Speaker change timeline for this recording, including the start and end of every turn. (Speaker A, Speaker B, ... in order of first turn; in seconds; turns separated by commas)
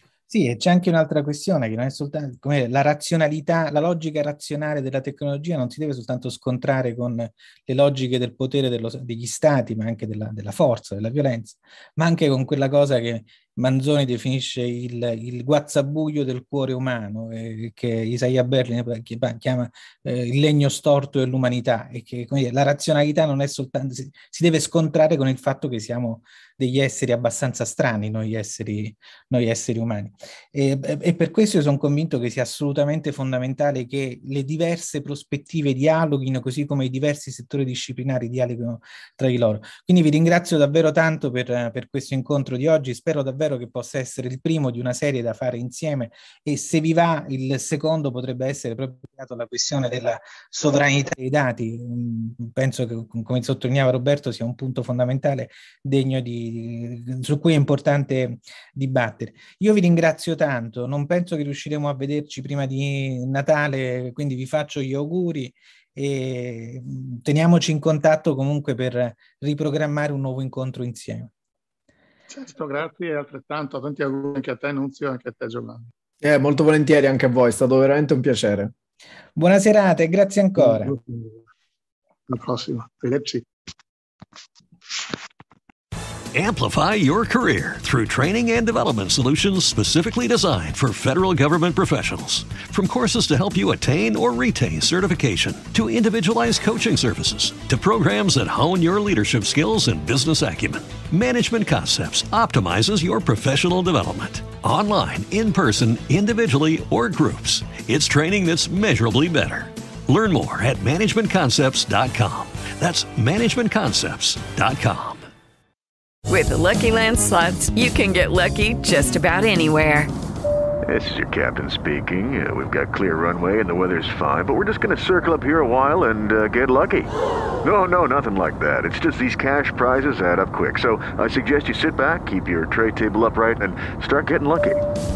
Speaker A: 0.3-71.3, Speaker B: 72.3-75.9, Speaker C: 76.2-78.7, Speaker A: 79.4-81.0, Speaker B: 80.6-81.4, Speaker B: 82.3-83.5, Speaker D: 86.3-115.3, Speaker E: 116.3-120.1, Speaker F: 120.9-127.1, Speaker F: 127.6-134.8